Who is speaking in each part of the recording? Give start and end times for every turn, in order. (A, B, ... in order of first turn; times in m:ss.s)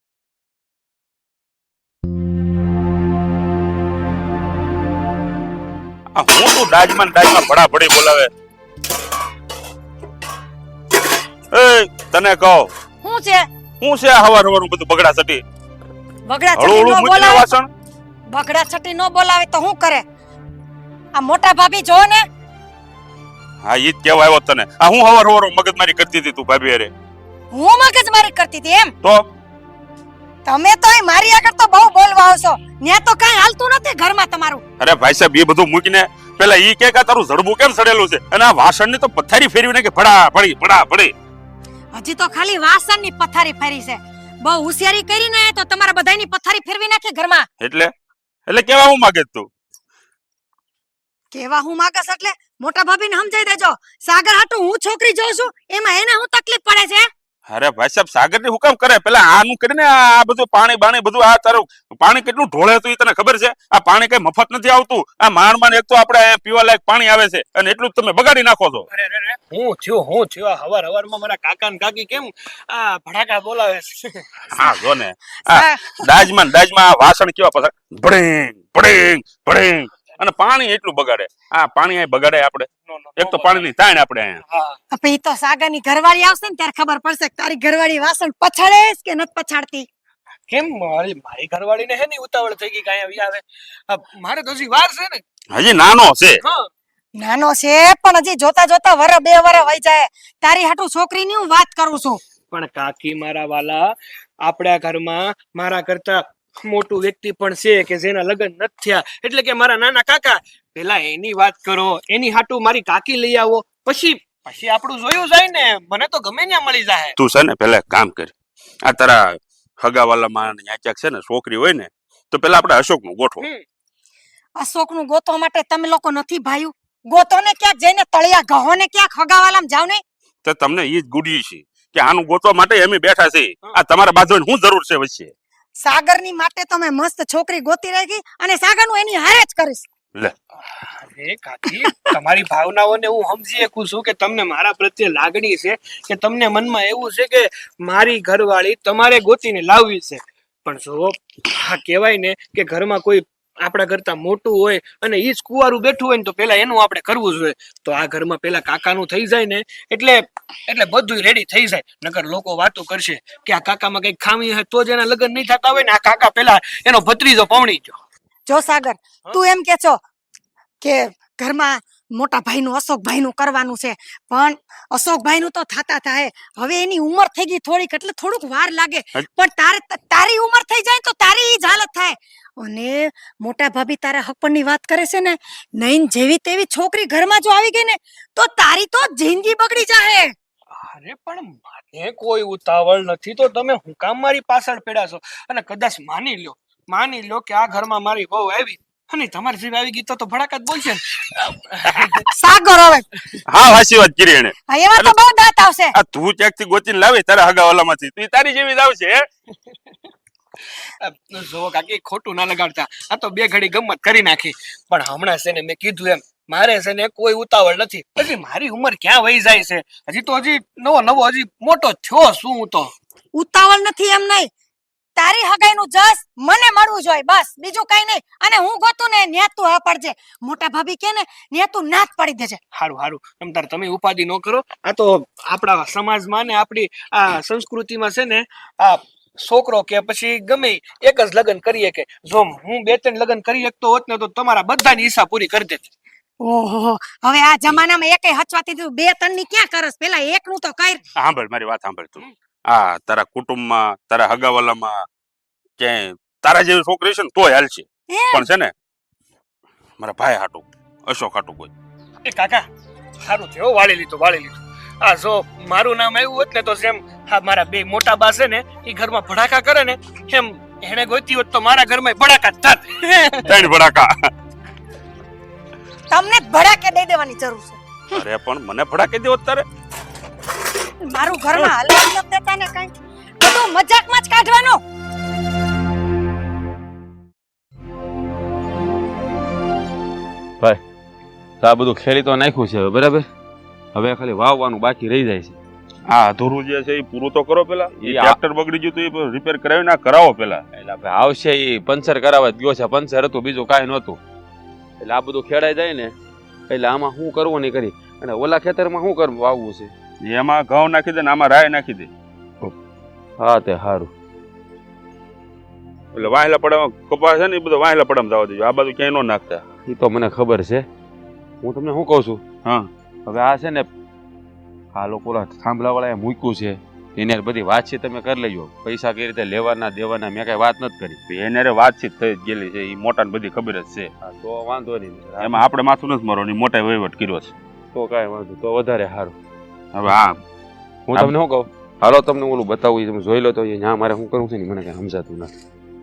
0:06.1-0:08.3 A
0:11.5-0:12.7 A
0:13.0-0:13.5 B
0:13.8-0:15.4 A
0:16.3-0:17.5 B
0:16.6-0:17.7 A
0:18.3-0:20.0 B
0:21.1-0:22.2 B
0:23.6-0:26.9 A
0:27.5-0:28.9 B
0:30.4-0:34.6 B
0:34.8-0:41.1 A
0:41.9-0:47.5 B
0:47.6-0:47.9 A
0:48.5-0:49.5 A
0:51.3-0:57.1 B
0:57.5-1:08.8 A
1:08.9-1:14.3 C
1:14.6-1:24.4 A
1:15.4-1:16.0 B
1:22.9-1:23.7 C
1:24.5-1:24.8 C
1:24.9-1:29.9 B
1:30.5-1:35.2 C
1:35.5-1:36.4 A
1:37.2-1:42.2 B
1:42.5-1:57.1 C
1:57.2-1:58.3 A
1:58.8-2:03.4 A
2:04.6-2:10.0 B
2:10.4-2:15.3 A
2:15.8-2:19.8 B
2:20.9-2:48.0 C
2:48.5-2:50.0 B
2:50.8-3:10.3 B
3:10.7-3:22.2 C
3:22.2-3:23.1 B
3:23.5-3:25.2 A
3:24.7-3:25.9 B
3:26.0-3:29.2 A
3:31.0-3:42.9 C
3:43.3-3:44.5 B
3:45.2-3:52.6 B
3:52.7-4:05.9 C
4:06.4-4:11.0 B
4:11.2-4:15.0 A
4:15.8-4:18.7 A
4:18.1-4:18.4 B
4:20.0-4:21.7 A
4:22.2-4:22.7 C
4:23.2-4:33.4 C
4:33.5-4:34.1 A
4:36.1-4:38.2 B
4:38.1-4:39.6 A
4:41.0-4:44.8 B
4:51.6-4:53.2 D
4:53.9-4:55.6 D
4:56.1-5:00.6 A
4:58.0-4:58.4 D
5:00.7-5:04.2 D
5:05.0-5:06.1 D
5:06.7-5:09.9 D
5:10.2-5:12.1 A
5:13.4-5:14.1 D
5:16.1-5:19.6 A
5:19.8-5:20.8 D
5:21.6-5:22.4 D
5:23.2-5:23.9 D
5:24.9-5:31.2 D
5:31.3-5:34.1 A
5:34.2-5:35.6 D
5:35.4-5:37.5 A
5:37.9-5:39.3 D
5:39.9-5:40.4 A
5:41.1-5:45.5 D